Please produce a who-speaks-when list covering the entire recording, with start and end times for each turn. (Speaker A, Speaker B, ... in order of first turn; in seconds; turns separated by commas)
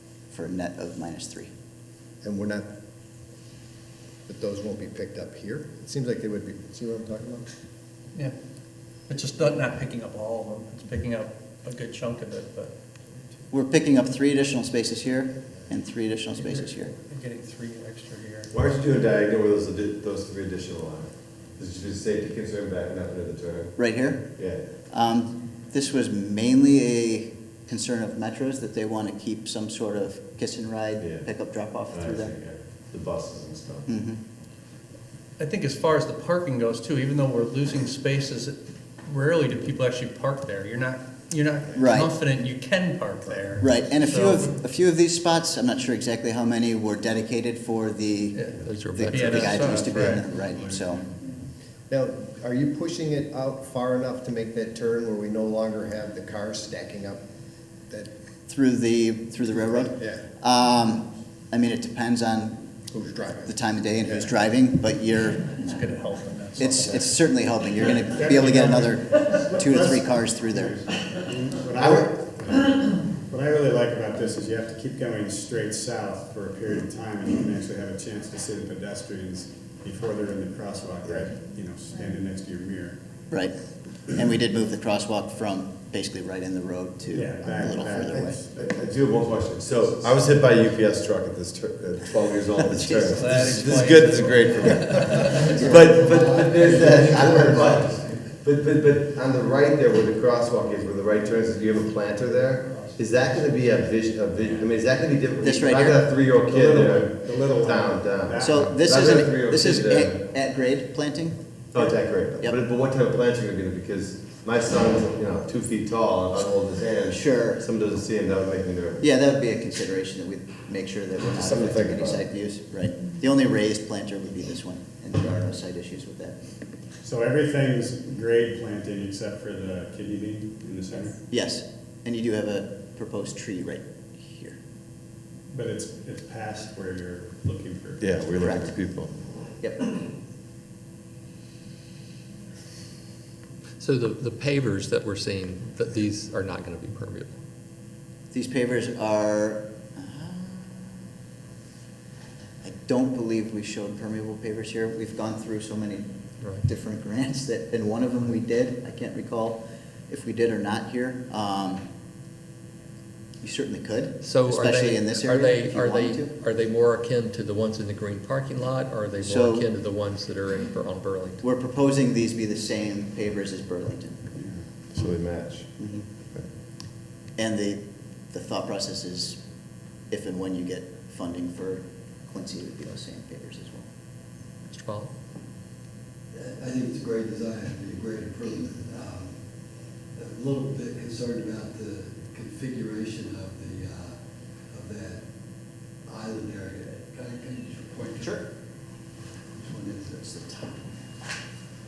Speaker A: 0.3-1.5, Speaker B: 2.2-2.7, Speaker B: 4.3-7.5, Speaker C: 9.1-12.7, Speaker A: 13.5-16.9, Speaker C: 16.4-18.5, Speaker D: 18.5-23.8, Speaker A: 23.8-32.3, Speaker D: 24.3-24.7, Speaker D: 31.0-31.3, Speaker D: 31.8-34.0, Speaker A: 33.9-34.2, Speaker C: 35.4-44.5, Speaker A: 41.7-42.1, Speaker A: 43.6-51.1, Speaker C: 48.3-48.6, Speaker E: 48.6-50.1, Speaker C: 49.1-50.2, Speaker F: 49.4-50.2, Speaker B: 51.9-57.2, Speaker A: 58.5-62.7, Speaker B: 60.0-60.2, Speaker B: 62.9-63.5, Speaker A: 63.5-66.0, Speaker C: 65.7-67.0, Speaker A: 66.6-70.9, Speaker B: 68.4-68.8, Speaker G: 71.3-72.7, Speaker G: 73.3-83.0, Speaker D: 81.0-81.3, Speaker A: 83.3-83.5, Speaker A: 84.1-88.4, Speaker G: 87.1-88.8, Speaker D: 88.5-110.2, Speaker A: 92.6-93.6, Speaker F: 93.1-93.7, Speaker C: 93.2-95.3, Speaker F: 94.4-98.3, Speaker A: 94.7-95.0, Speaker A: 95.5-95.8, Speaker F: 102.7-103.7, Speaker A: 105.4-106.0, Speaker G: 106.6-108.8, Speaker A: 108.4-111.4, Speaker D: 111.7-119.1, Speaker A: 117.1-117.6, Speaker A: 119.0-126.4, Speaker D: 121.3-122.2, Speaker G: 127.0-131.1, Speaker A: 130.9-134.6, Speaker G: 135.5-138.0, Speaker D: 138.0-139.4, Speaker A: 138.4-138.7, Speaker A: 139.6-139.9, Speaker E: 143.8-147.4, Speaker A: 148.3-151.0, Speaker A: 152.6-156.1, Speaker A: 156.6-161.8, Speaker A: 163.4-166.3, Speaker E: 164.2-171.4, Speaker A: 169.2-169.7, Speaker A: 171.4-174.2, Speaker G: 174.3-174.6, Speaker D: 174.8-175.8, Speaker A: 175.8-176.1, Speaker A: 177.3-179.4, Speaker A: 180.1-183.9, Speaker E: 184.7-185.1, Speaker F: 186.3-200.3, Speaker A: 198.2-198.4, Speaker A: 200.2-200.9